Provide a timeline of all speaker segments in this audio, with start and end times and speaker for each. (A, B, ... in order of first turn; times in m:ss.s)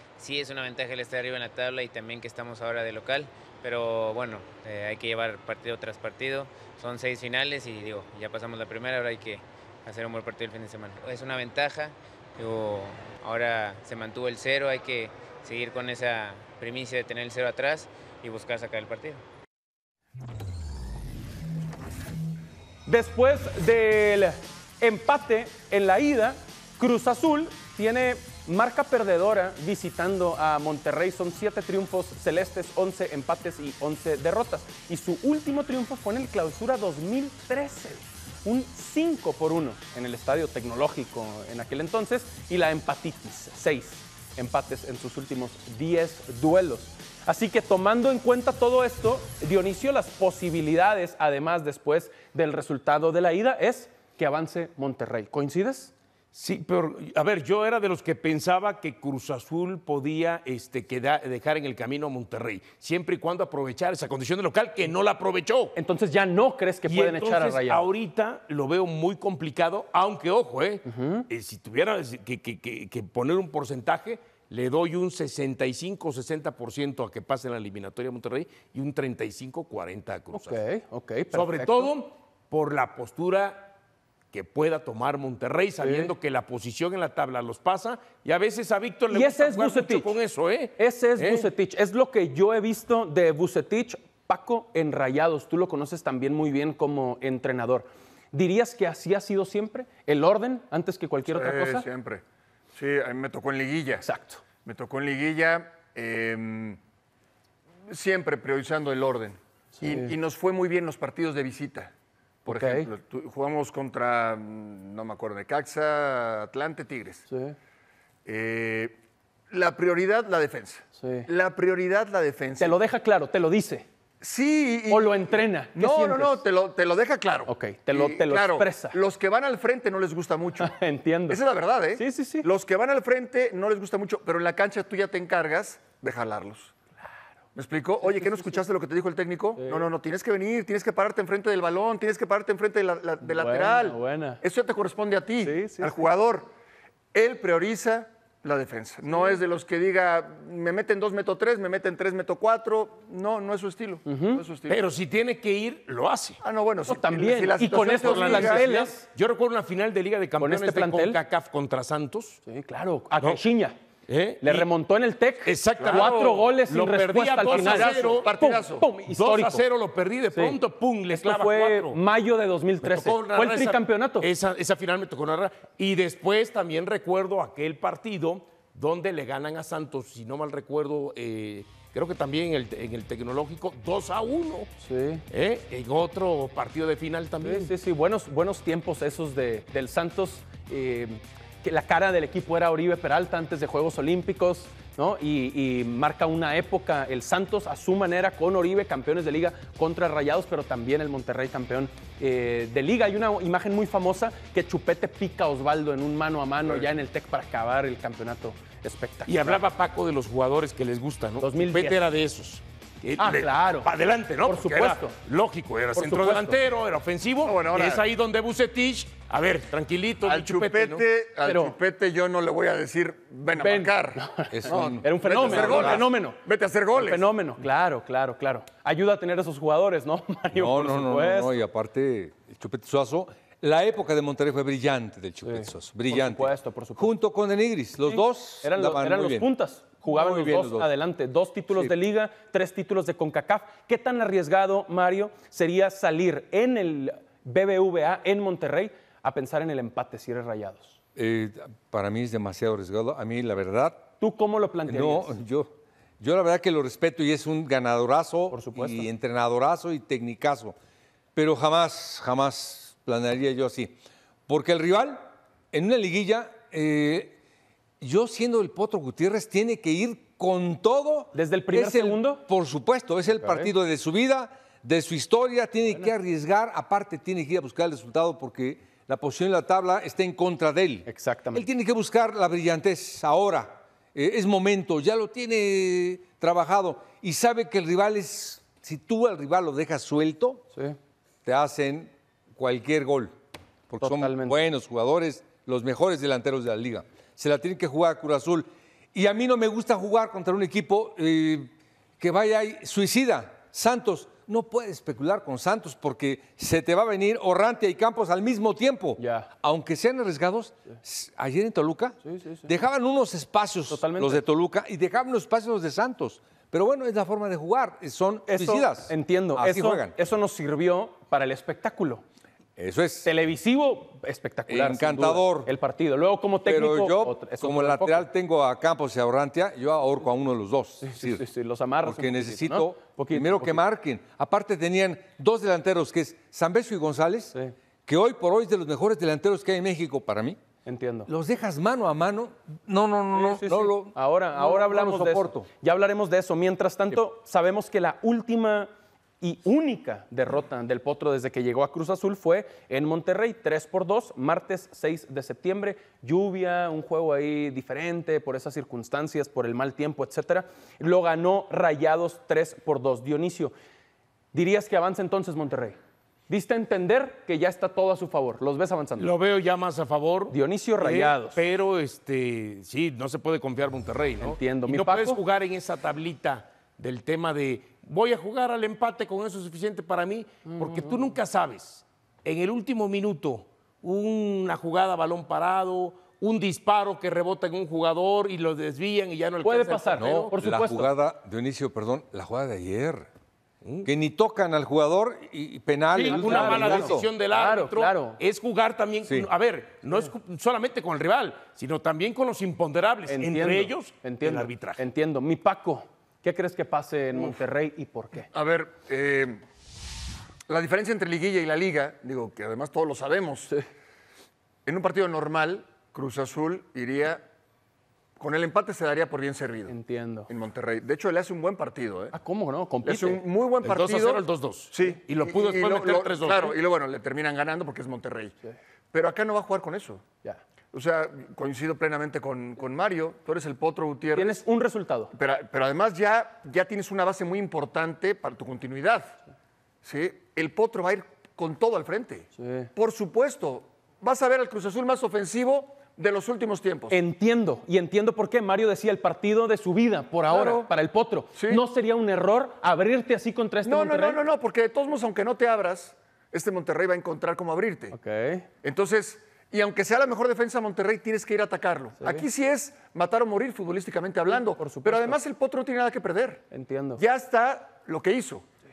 0:00.2-0:19.2 A
0:22.9-0:55.9 B
0:56.3-1:05.8 C
1:05.8-1:07.8 B
1:06.9-1:20.6 C
1:10.9-1:11.3 B
1:20.3-1:21.9 B
1:21.3-1:23.8 C
1:24.3-1:31.5 C
1:25.8-1:26.1 B
1:29.1-1:30.1 B
1:30.8-1:41.9 B
1:41.3-1:42.2 D
1:42.8-1:44.1 D
1:44.0-1:44.4 B
1:44.6-1:46.8 D
1:47.9-1:51.9 D
1:49.8-1:50.1 B
1:52.5-1:52.9 B
1:52.5-1:57.2 D
1:57.3-1:57.6 B
1:58.2-1:59.0 D
1:59.5-2:02.8 D
2:01.0-2:01.3 B
2:02.6-2:03.9 B
2:04.2-2:10.7 D
2:04.9-2:06.4 B
2:07.5-2:09.0 B
2:10.6-2:11.4 B
2:11.3-2:16.7 D
2:12.0-2:12.5 B
2:17.6-2:26.5 D
2:19.6-2:19.9 B
2:23.2-2:24.4 B
2:25.4-2:25.9 B
2:27.1-2:34.8 D
2:34.0-2:34.4 B
2:34.7-2:36.4 C
2:36.4-2:38.6 D
2:36.9-2:39.0 B
2:37.7-2:42.4 C
2:40.4-2:41.2 B
2:42.4-2:43.8 B
2:44.1-2:44.7 C
2:44.4-2:49.6 B
2:45.4-2:48.3 C
2:45.8-2:46.3 D
2:47.4-2:48.9 D
2:49.1-2:52.0 C
2:51.1-2:54.3 B
2:52.8-3:04.7 C
3:04.8-3:05.2 B
3:05.3-3:07.7 C
3:07.4-3:29.6 B
3:29.3-3:41.1 C
3:31.4-3:32.0 B
3:33.2-3:33.9 B
3:34.4-3:35.2 B
3:36.0-3:36.6 B
3:37.4-3:38.1 D
3:40.2-3:47.2 D
3:41.4-3:41.8 B
3:43.6-3:46.4 B
3:44.5-3:45.1 E
3:45.4-3:46.0 C
3:46.9-3:51.6 B
3:50.5-3:59.5 E
3:55.4-3:57.1 B
3:58.0-4:11.0 B
4:00.1-4:00.9 E
4:11.2-4:14.1 E
4:14.2-4:15.4 B
4:14.9-4:20.8 E
4:18.5-4:19.1 B
4:21.4-4:24.0 E
4:24.5-4:27.4 E
4:28.0-4:50.6 E
4:31.3-4:32.4 B
4:33.3-4:33.7 B
4:41.1-4:41.7 B
4:51.4-4:53.3 E
4:53.9-5:20.2 E
4:54.0-4:54.6 B
5:09.2-5:09.5 B
5:12.2-5:12.7 B
5:13.9-5:14.4 B
5:18.5-5:22.2 B
5:22.8-5:23.3 E
5:23.2-5:28.3 B
5:24.7-5:25.7 E
5:26.6-5:31.5 E
5:31.0-5:33.8 B
5:32.0-5:37.6 E
5:38.1-5:40.6 E
5:40.8-5:41.3 B
5:41.3-5:45.7 E
5:43.3-5:48.9 B
5:49.4-6:03.7 B
6:04.5-6:06.0 B
6:06.5-6:09.3 B
6:09.2-6:30.5 C
6:10.5-6:11.6 B
6:14.4-6:15.4 B
6:20.7-6:21.2 B
6:29.6-6:31.1 B
6:30.2-6:33.3 E
6:33.8-6:34.1 C
6:34.0-6:37.3 E
6:36.1-6:45.0 C
6:36.3-6:38.4 B
6:43.3-6:48.5 B
6:48.5-6:49.6 D
6:50.7-6:53.7 D
6:54.9-6:57.4 D
6:58.4-7:00.0 D
6:59.9-7:00.5 B
7:00.5-7:02.4 D
7:02.3-7:03.4 B
7:03.0-7:08.6 D
7:03.8-7:06.8 C
7:09.1-7:10.2 D
7:10.9-7:14.6 D
7:14.3-7:15.3 B
7:15.3-7:19.4 D
7:20.0-7:27.2 D
7:22.6-7:22.9 B
7:27.1-7:34.4 B
7:30.5-7:30.9 D
7:31.6-7:31.8 D
7:33.8-7:38.2 D
7:38.1-7:38.7 B
7:38.8-7:46.6 D
7:42.2-7:42.4 B
7:44.5-7:45.4 B
7:46.7-7:47.2 B
7:47.2-7:48.6 D